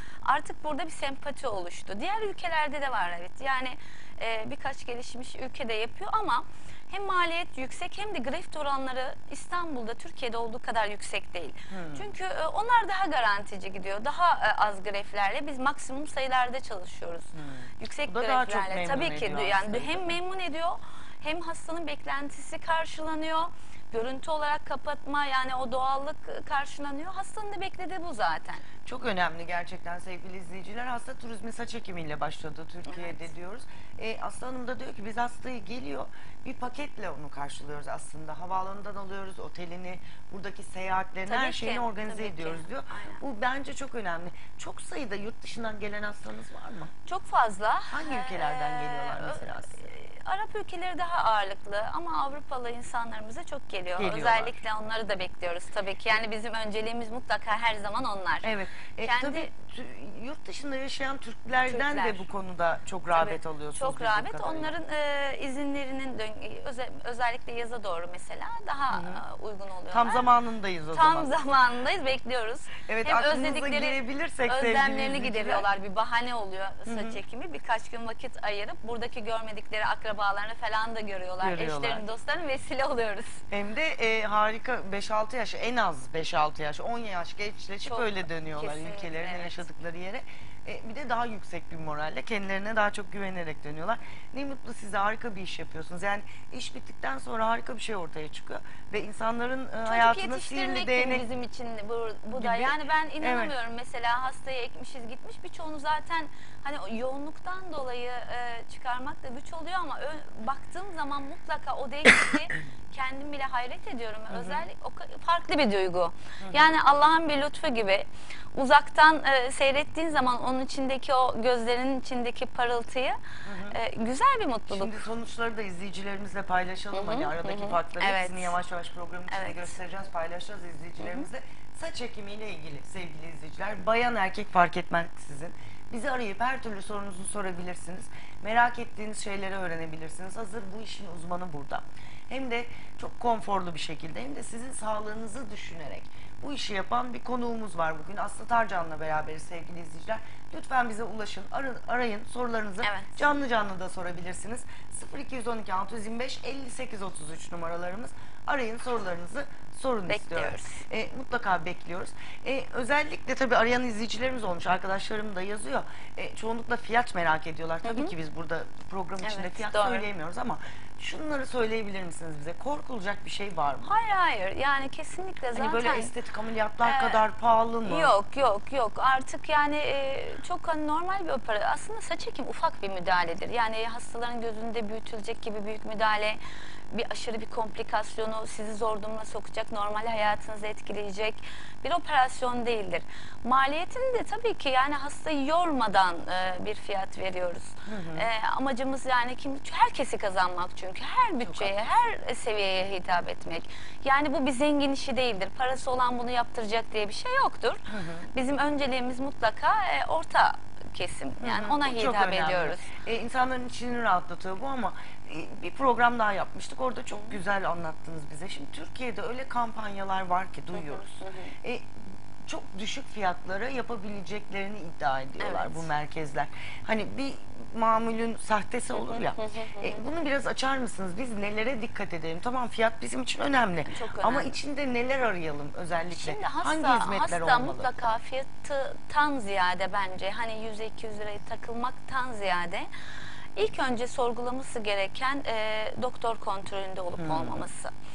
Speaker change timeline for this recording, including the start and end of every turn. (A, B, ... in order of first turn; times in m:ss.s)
0:00.2-0:28.6 A
0:11.7-0:12.1 B
0:17.3-0:20.2 B
0:28.8-0:46.9 B
0:32.9-0:33.2 A
0:41.2-0:43.2 A
0:47.0-0:58.5 A
0:47.9-0:49.9 B
0:54.0-0:54.6 B
0:58.4-1:04.7 B
0:59.0-0:59.5 A
1:01.7-1:02.3 A
1:03.1-1:10.3 A
1:08.9-1:09.2 B
1:09.9-1:11.3 B
1:10.9-1:23.4 A
1:12.8-1:15.7 B
1:16.9-1:17.2 B
1:21.4-1:22.0 B
1:23.5-1:41.2 B
1:27.8-1:29.7 A
1:39.8-2:05.0 A
1:42.3-1:43.5 B
1:54.3-1:54.6 B
1:56.4-1:56.7 B
2:03.4-2:03.8 B
2:04.7-2:53.9 B
2:06.9-2:08.6 A
2:09.3-2:09.7 A
2:11.0-2:11.3 A
2:32.8-2:33.2 A
2:40.1-2:40.8 A
2:47.8-2:48.1 A
2:49.2-2:50.1 A
2:53.8-2:56.1 A
2:55.5-2:58.1 B
2:56.8-2:57.2 A
2:57.8-3:06.4 A
3:06.9-3:32.9 A
3:17.8-3:18.3 B
3:21.4-3:21.8 B
3:27.9-3:28.3 B
3:31.4-3:41.0 B
3:40.7-3:41.5 A
3:41.6-3:41.9 B
3:42.4-3:58.0 B
3:45.4-3:45.9 A
3:48.9-3:50.0 A
3:53.9-3:54.6 A
3:56.1-4:02.9 A
4:03.6-4:07.9 A
4:07.2-4:07.6 B